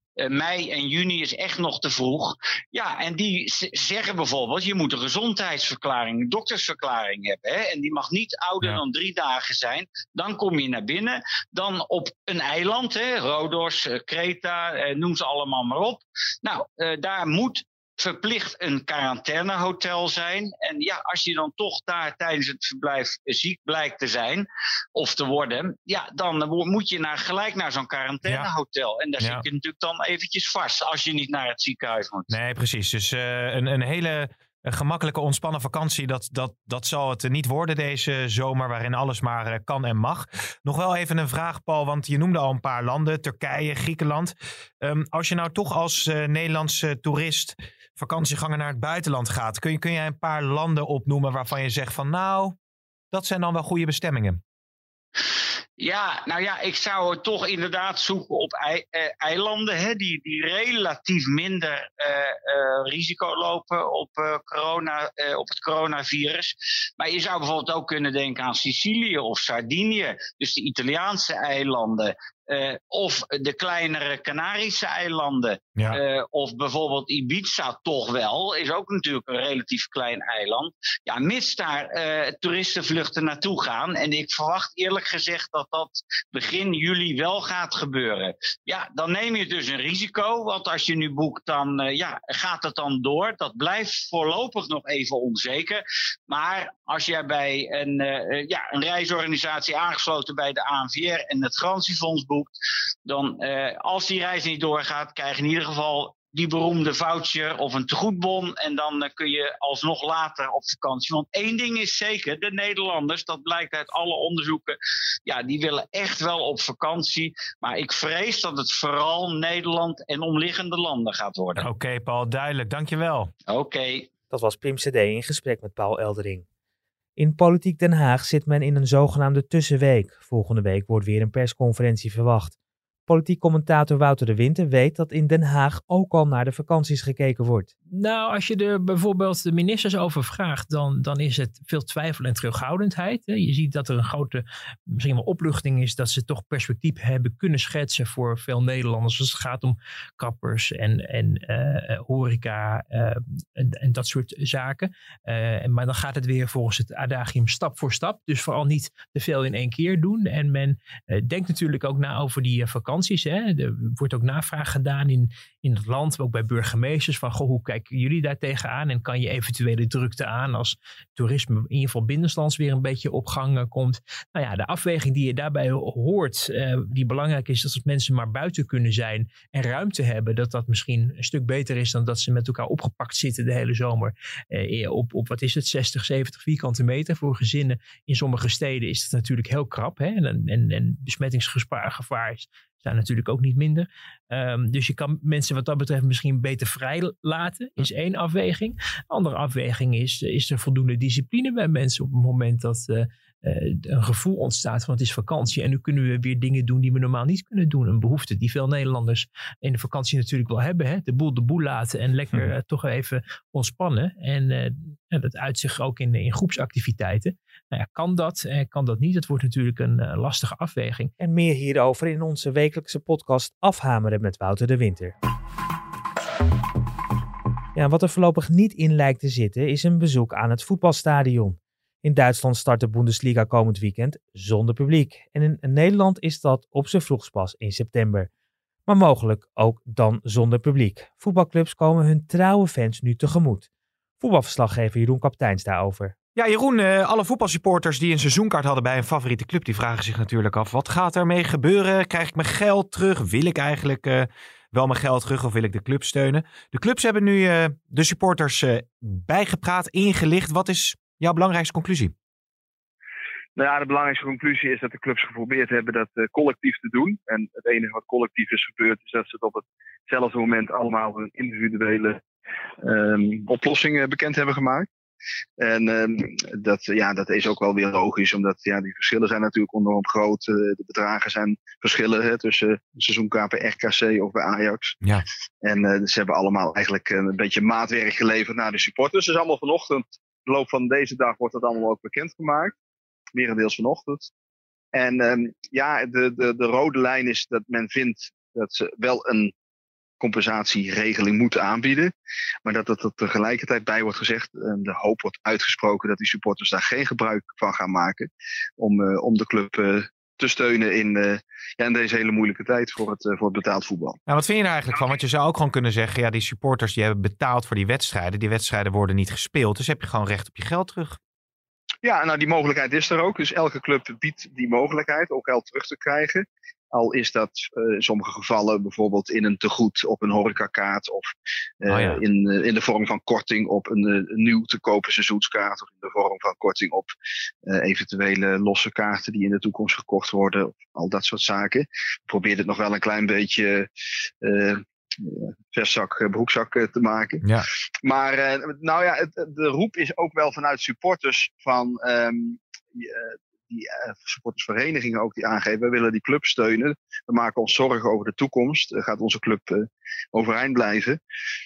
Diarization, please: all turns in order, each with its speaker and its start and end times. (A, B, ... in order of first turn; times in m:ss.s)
0:00.2-0:32.3 A
0:28.2-0:28.5 B
0:32.3-0:52.5 B
0:53.1-0:54.4 B
0:55.8-1:42.5 A
1:43.0-2:01.6 A
2:01.6-2:03.3 B
2:03.5-2:04.1 A
2:04.3-2:06.4 C
2:07.2-2:12.5 C
2:13.1-2:17.7 C
2:17.9-3:41.1 D
3:41.2-3:45.1 C
3:47.8-3:58.3 C
3:58.8-4:03.7 C
4:04.2-4:06.1 C
4:06.3-4:22.1 B
4:23.6-4:32.2 E
4:32.8-4:34.9 E
4:35.6-4:45.0 E
4:45.6-4:52.7 E
4:53.3-4:54.3 E
4:54.9-4:59.5 E
5:00.2-5:02.1 E
5:02.6-5:14.2 E
5:14.3-5:21.2 B
5:22.0-5:31.3 E
5:31.8-5:37.1 E
5:31.9-5:32.2 B
5:37.6-5:43.9 E
5:44.4-5:47.4 E
5:48.0-6:01.2 E